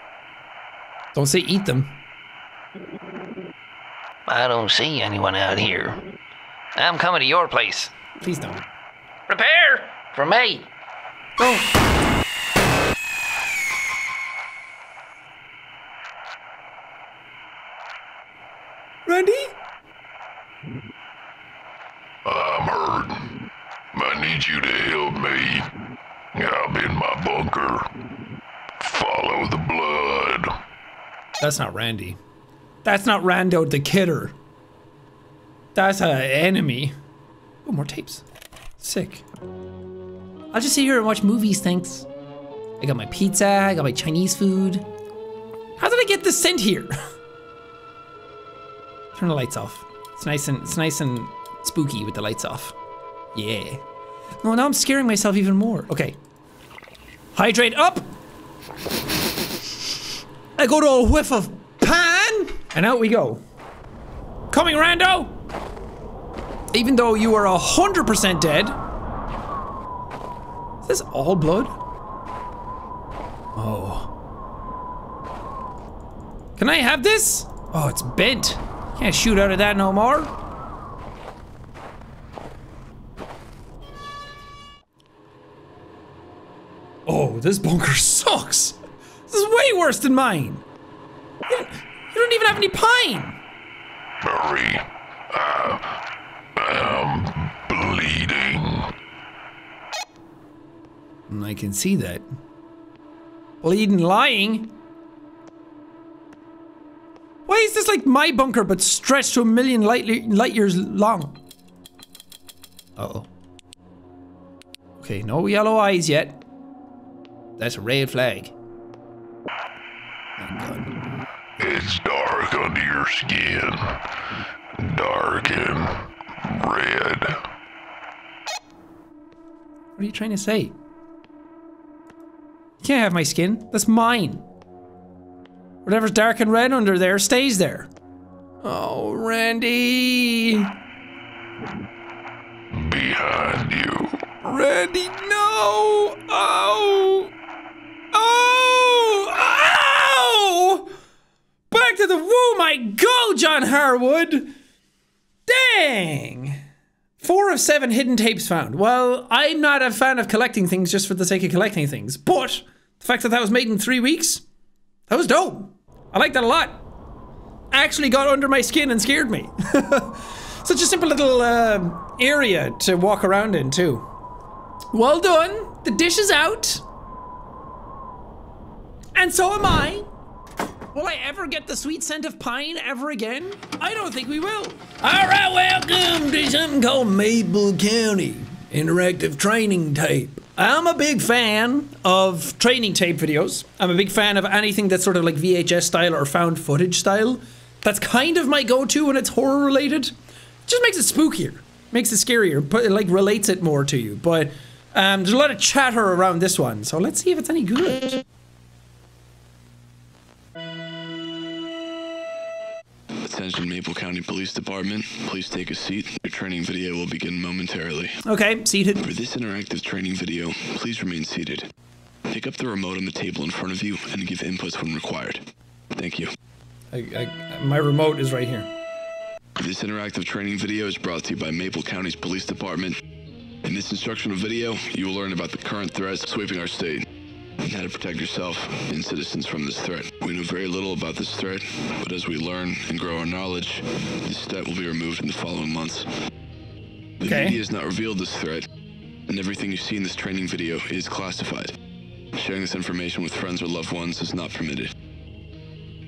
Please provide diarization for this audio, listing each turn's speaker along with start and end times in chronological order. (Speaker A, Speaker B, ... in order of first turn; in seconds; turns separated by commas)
Speaker A: 1.1-1.9, Speaker B: 4.3-6.0, Speaker B: 6.8-7.9, Speaker A: 8.2-8.6, Speaker B: 9.3-10.7, Speaker A: 11.4-11.7, Speaker A: 19.1-19.5, Speaker C: 22.2-23.4, Speaker C: 23.9-25.7, Speaker C: 26.3-27.9, Speaker C: 28.8-30.5, Speaker A: 31.4-32.2, Speaker A: 32.8-34.3, Speaker A: 35.7-36.9, Speaker A: 37.6-38.2, Speaker A: 38.8-39.2, Speaker A: 40.5-42.1, Speaker A: 42.8-44.9, Speaker A: 45.8-46.9, Speaker A: 49.1-52.7, Speaker A: 53.3-53.8, Speaker A: 54.4-56.2, Speaker A: 57.3-58.1, Speaker A: 60.6-63.4, Speaker A: 64.5-65.4, Speaker A: 66.7-68.8, Speaker A: 70.8-71.7, Speaker A: 73.5-74.1, Speaker A: 76.6-80.3, Speaker A: 87.0-90.6, Speaker A: 91.5-93.4, Speaker C: 94.2-96.0, Speaker C: 96.6-98.9, Speaker A: 101.3-102.2, Speaker A: 103.6-104.7, Speaker A: 107.5-111.4, Speaker A: 113.0-113.3, Speaker A: 115.0-116.4, Speaker A: 117.6-118.5, Speaker A: 120.4-120.9, Speaker C: 121.6-124.0, Speaker C: 124.8-127.4, Speaker A: 130.0-130.7, Speaker A: 132.8-134.4, Speaker A: 135.8-137.9, Speaker A: 138.6-140.7, Speaker C: 142.7-144.2, Speaker A: 144.4-147.3, Speaker A: 148.1-150.9, Speaker A: 151.7-154.5, Speaker A: 155.5-156.6, Speaker A: 157.2-164.4, Speaker A: 165.1-166.8, Speaker A: 167.7-174.1, Speaker A: 174.9-176.8, Speaker A: 179.2-180.1, Speaker A: 180.9-200.1, Speaker A: 200.7-208.2, Speaker D: 213.2-218.2, Speaker A: 218.2-219.0, Speaker D: 219.0-221.7, Speaker D: 222.3-226.3, Speaker A: 226.9-228.7, Speaker D: 229.6-233.0, Speaker D: 233.6-237.1, Speaker D: 237.6-246.1, Speaker D: 247.2-248.7, Speaker A: 247.2-247.6, Speaker D: 249.3-251.7, Speaker D: 252.3-254.9